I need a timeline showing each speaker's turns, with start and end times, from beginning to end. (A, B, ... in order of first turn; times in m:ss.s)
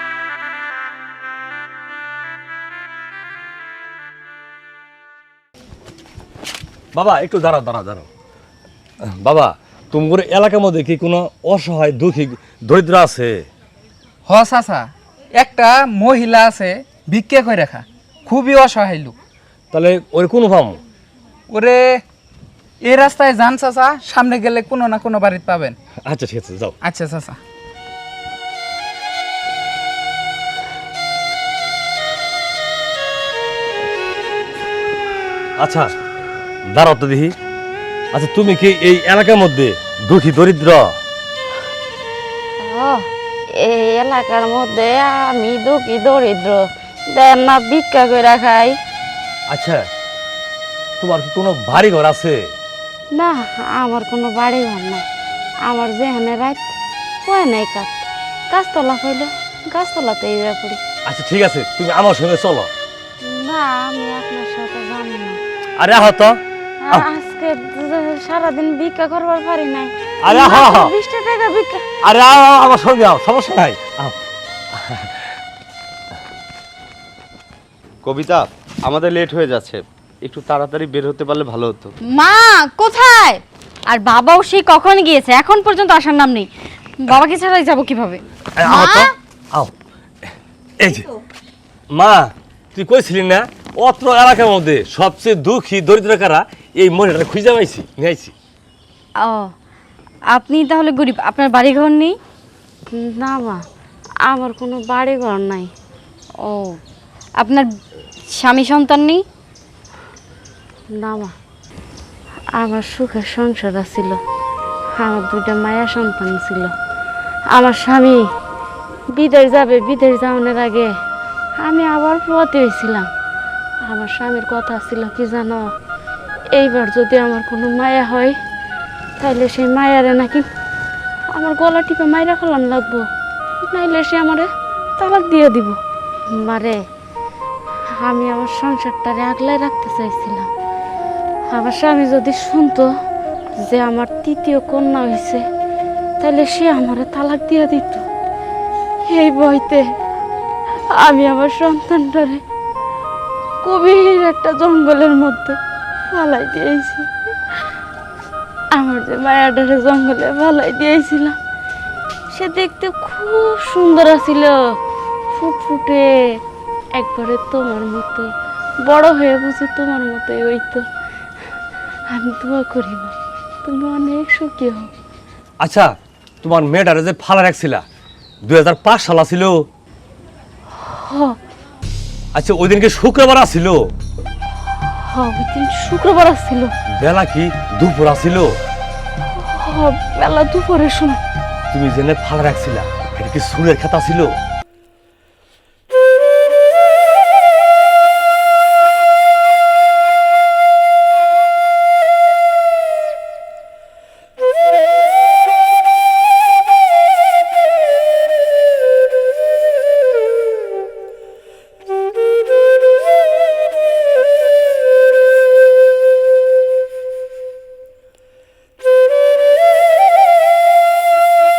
0:06.9-0:08.1 A
0:09.0-0:13.4 A
0:14.3-0:19.2 B
0:19.7-0:20.8 A
0:21.5-0:22.0 B
0:22.8-0:25.8 B
0:26.0-0:26.8 A
0:26.8-0:27.4 B
0:35.6-0:35.9 A
0:36.7-0:37.3 A
0:38.1-0:40.9 A
0:42.6-0:48.8 C
0:49.5-0:49.8 A
0:51.0-0:52.5 A
0:53.2-0:55.0 C
0:55.7-0:56.6 C
0:57.2-1:00.8 C
1:01.1-1:02.7 A
1:03.2-1:05.4 C
1:05.8-1:07.1 A
1:06.9-1:11.8 C
1:10.2-1:10.9 A
1:12.0-1:14.2 A
1:14.7-1:15.3 A
1:18.0-1:21.9 D
1:22.1-1:26.5 E
1:27.0-1:29.1 E
1:28.6-1:29.7 A
1:30.3-1:31.1 A
1:31.9-1:38.3 A
1:39.2-1:39.5 E
1:40.3-1:42.2 E
1:42.9-1:43.6 C
1:44.3-1:45.7 C
1:46.4-1:46.8 E
1:47.4-1:47.7 E
1:48.3-1:49.2 E
1:50.9-1:51.3 C
1:52.6-1:54.2 C
1:55.0-1:56.7 C
1:57.5-1:58.2 C
1:59.1-2:00.9 C
2:01.6-2:03.1 C
2:03.9-2:05.7 C
2:06.6-2:08.4 C
2:09.2-2:10.5 C
2:11.3-2:13.1 C
2:13.7-2:15.8 C
2:16.4-2:16.8 C
2:18.0-2:20.5 C
2:21.5-2:22.9 C
2:23.6-2:25.4 C
2:26.2-2:28.0 C
2:29.1-2:29.8 C
2:31.0-2:32.4 C
2:33.6-2:35.6 C
2:36.1-2:37.1 C
2:38.7-2:41.4 C
2:42.3-2:44.6 C
2:45.3-2:46.1 C
2:47.0-2:48.3 C
2:48.8-2:50.8 C
2:52.1-2:54.9 C
2:55.6-2:57.8 A
2:58.4-2:59.6 A
3:00.7-3:01.4 C
3:02.3-3:03.9 A
3:05.0-3:06.7 C
3:07.0-3:08.6 A
3:09.4-3:11.2 C
3:11.7-3:14.3 A